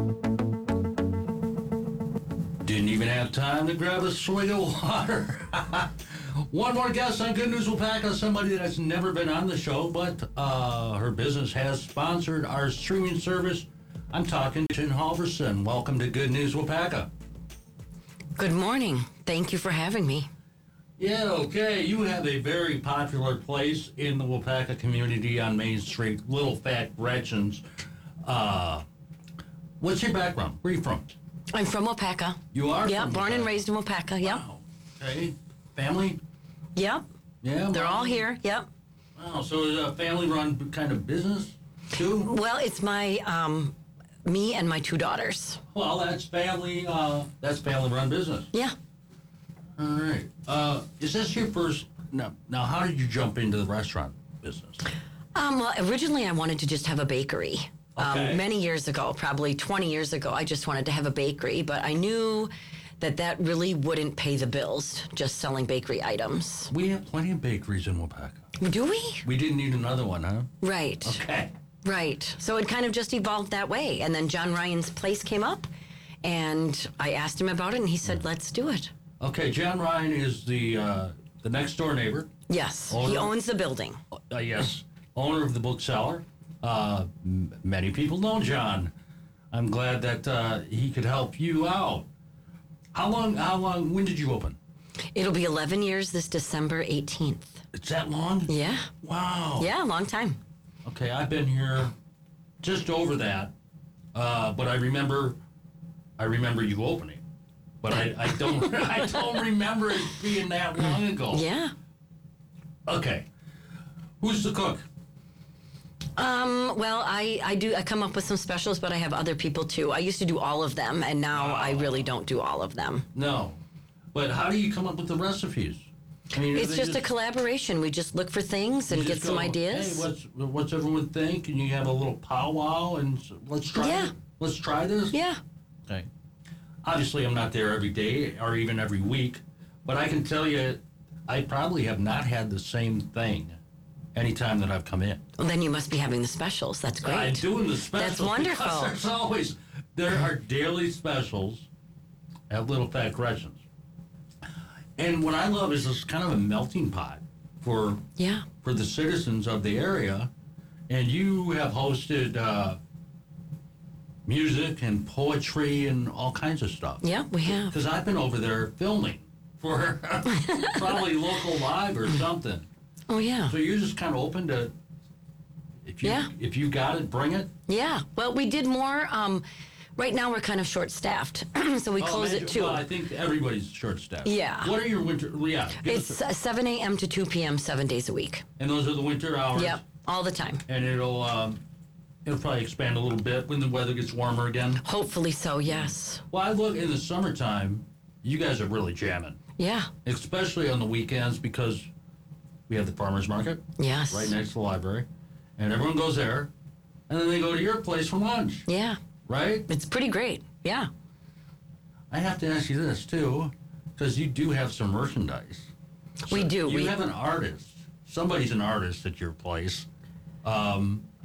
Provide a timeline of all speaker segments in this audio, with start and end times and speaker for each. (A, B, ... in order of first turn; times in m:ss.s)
0:02.6-0:17.1 A
0:18.4-0:20.3 B
0:21.0-0:27.6 A
0:28.2-0:28.8 A
0:29.8-0:31.1 A
0:31.5-0:34.4 B
0:32.5-0:33.5 A
0:34.2-0:36.2 A
0:36.8-0:37.1 B
0:37.4-0:38.3 A
0:37.7-0:38.7 B
0:39.2-0:42.3 A
0:42.2-0:45.6 B
0:45.7-0:48.5 A
0:49.8-0:54.8 A
0:55.4-1:06.7 B
0:58.0-0:58.4 A
1:06.7-1:08.5 A
1:08.6-1:09.3 B
1:09.2-1:11.5 A
1:10.6-1:11.2 B
1:11.8-1:15.7 B
1:16.2-1:18.9 B
1:19.2-1:22.3 A
1:22.5-1:24.0 B
1:22.9-1:23.3 A
1:24.1-1:28.9 A
1:29.5-1:32.1 A
1:32.9-1:34.6 A
1:35.1-1:37.6 B
1:37.7-1:39.7 A
1:38.5-1:38.9 B
1:39.6-1:40.4 B
1:40.8-1:41.9 A
1:42.6-1:43.5 A
1:44.1-1:45.4 A
1:46.2-1:47.2 A
1:47.8-1:51.5 A
1:48.2-1:49.3 B
1:51.3-1:51.7 B
1:52.9-1:53.3 A
1:54.2-1:54.8 A
1:56.2-2:03.1 B
2:01.3-2:02.0 A
2:03.1-2:03.6 A
2:04.1-2:07.1 A
2:06.5-2:10.1 B
2:08.9-2:15.2 A
2:13.8-2:14.1 B
2:15.1-2:15.4 B
2:16.8-2:23.6 A
2:24.1-2:25.2 A
2:25.4-2:29.0 B
2:27.0-2:31.7 A
2:32.5-2:33.6 A
2:35.0-2:38.0 A
2:38.2-2:38.5 B
2:38.6-2:40.3 A
2:40.9-2:42.8 A
2:44.3-2:52.7 A
2:47.0-2:47.8 B
2:50.4-2:50.9 B
2:53.1-2:53.5 B
2:53.5-2:54.7 A
2:55.8-2:57.5 A
2:56.0-2:56.3 B
2:57.7-2:59.4 B
3:00.0-3:02.9 B
3:02.0-3:06.2 A
3:04.2-3:04.7 B
3:05.8-3:08.4 B
3:08.6-3:09.8 A
3:09.5-3:10.6 B
3:10.7-3:11.6 A
3:12.2-3:14.8 A
3:14.8-3:16.2 B
3:15.7-3:19.4 A
3:19.6-3:19.9 B
3:20.0-3:21.9 A
3:22.7-3:25.1 A
3:23.8-3:24.4 B
3:25.6-3:26.5 A
3:27.1-3:28.7 A
3:28.7-3:29.0 B
3:29.3-3:29.7 A
3:29.7-3:30.9 B
3:32.1-3:35.7 A
3:36.2-3:37.0 B
3:36.3-3:39.9 A
3:40.4-3:41.0 A